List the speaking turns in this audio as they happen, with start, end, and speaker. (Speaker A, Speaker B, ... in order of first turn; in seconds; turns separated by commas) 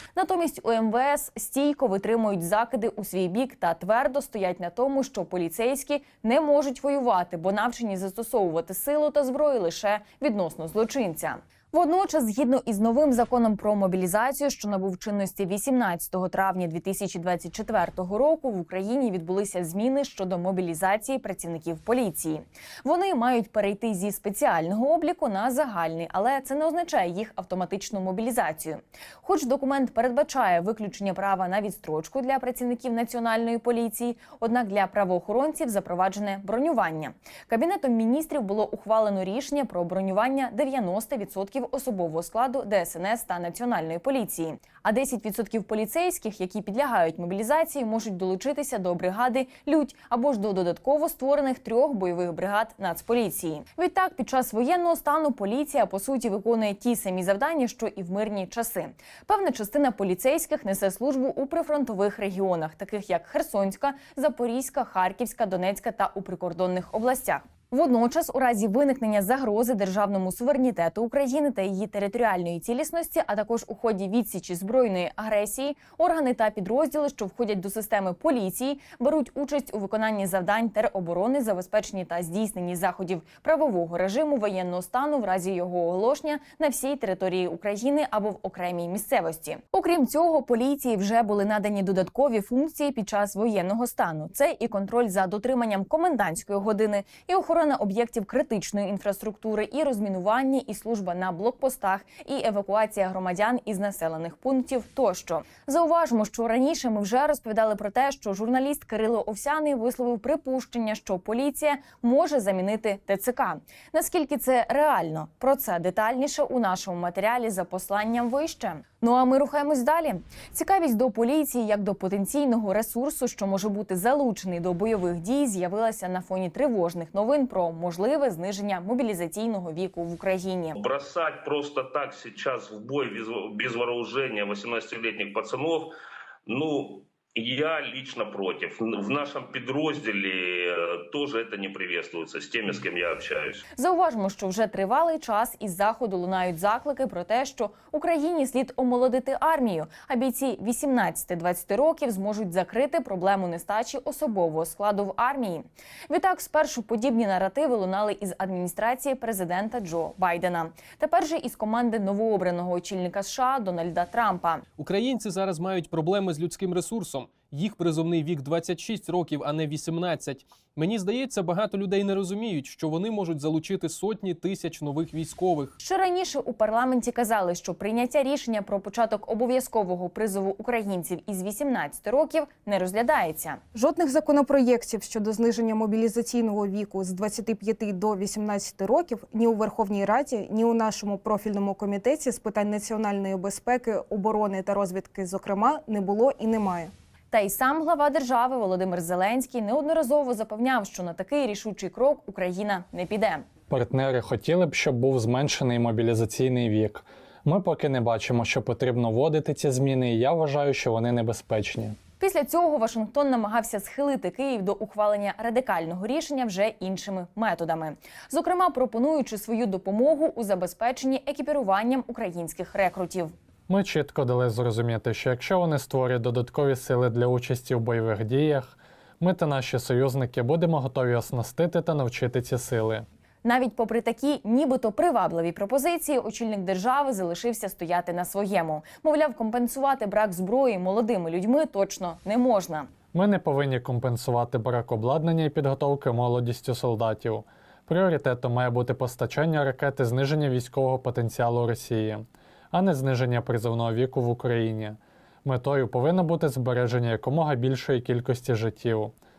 Speaker A: 0.1-130.8, Speaker B: 130.8-135.9, Speaker B: 136.5-143.6, Speaker A: 143.8-164.6, Speaker C: 164.8-175.7, Speaker A: 175.8-183.6, Speaker D: 183.7-196.9, Speaker A: 197.3-203.4, Speaker E: 203.7-212.0, Speaker A: 212.2-223.3, Speaker E: 223.7-233.0, Speaker A: 233.4-242.9, Speaker E: 243.1-259.1